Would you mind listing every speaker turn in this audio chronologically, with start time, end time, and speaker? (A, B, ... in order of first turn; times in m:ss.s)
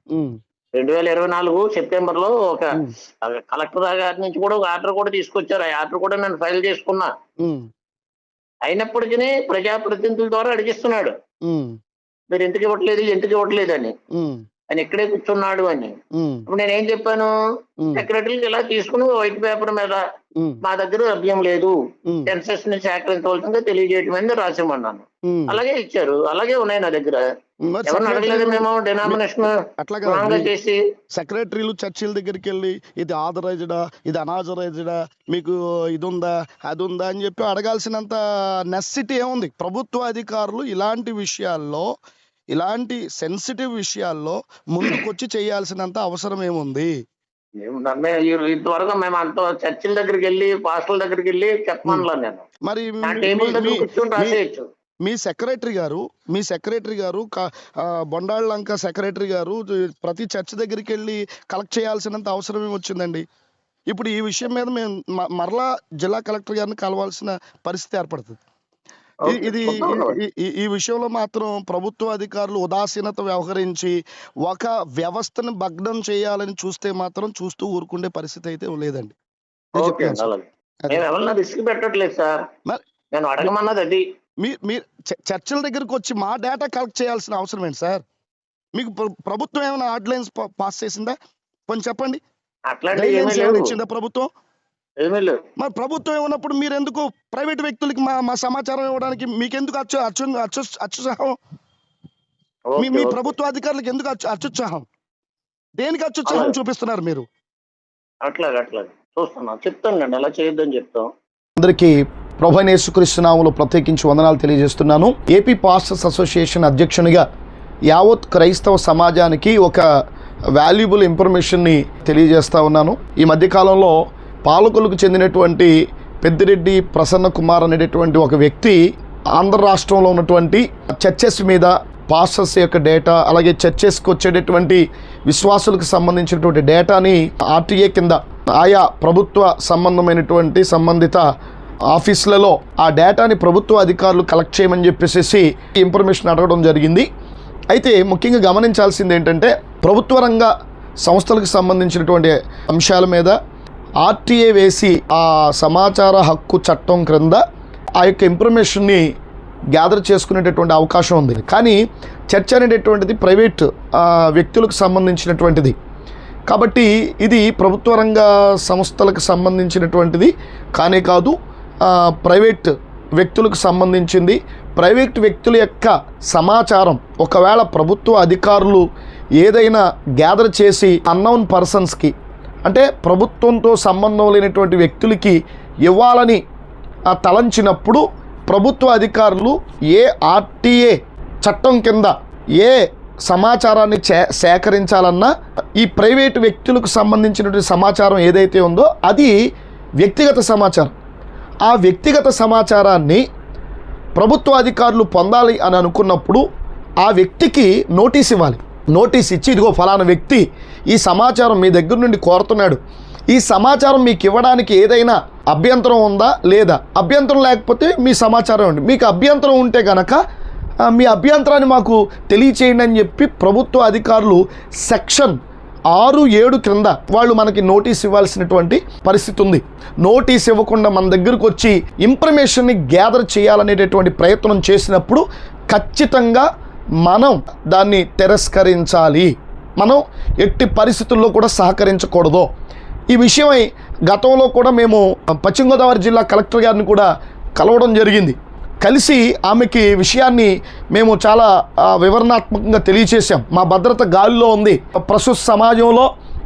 0:00.8-0:07.1 A
0:07.4-0:07.7 B
0:08.6-0:11.2 A
0:11.4-0:11.8 B
0:12.3-0:13.9 A
0:14.1-0:14.4 B
0:14.7-0:16.0 A
0:16.2-0:16.4 B
0:16.5-0:17.3 A
0:17.8-0:18.1 B
0:17.9-0:20.0 A
0:20.6-0:27.2 A
0:22.1-0:22.3 B
0:25.3-0:25.6 B
0:27.6-0:30.5 B
0:27.8-0:30.8 A
0:31.1-0:41.9 B
0:42.5-0:46.9 B
0:47.6-0:52.4 A
0:52.7-0:54.4 B
0:53.0-0:54.7 A
0:55.0-1:03.2 B
1:03.9-1:08.4 B
1:09.2-1:10.2 A
1:09.3-1:19.2 B
1:19.7-1:20.3 B
1:19.8-1:22.4 A
1:23.1-1:24.0 A
1:24.4-1:28.0 B
1:28.8-1:31.1 B
1:31.7-1:32.2 B
1:32.7-1:33.8 A
1:32.9-1:34.3 B
1:35.0-1:35.4 A
1:35.6-1:41.4 B
1:42.7-1:43.3 A
1:42.8-1:44.9 B
1:45.8-1:47.2 B
1:46.3-1:46.5 A
1:48.2-1:51.1 A
1:51.6-1:57.2 B
1:57.9-1:59.8 B
2:00.6-2:08.8 B
2:09.4-2:21.2 B
2:21.9-2:27.1 B
2:27.7-2:33.4 B
2:34.0-2:37.4 B
2:38.0-2:39.0 B
2:39.7-2:41.8 B
2:42.3-2:45.8 B
2:46.5-2:58.8 B
2:59.4-3:02.1 B
3:02.6-3:06.4 B
3:07.1-3:19.3 B
3:20.0-3:20.9 B
3:21.6-3:23.2 B
3:24.2-3:26.4 B
3:27.0-3:32.8 B
3:33.3-3:40.2 B
3:40.8-3:45.4 B
3:45.9-3:56.5 B
3:57.0-4:02.5 B
4:03.1-4:16.1 B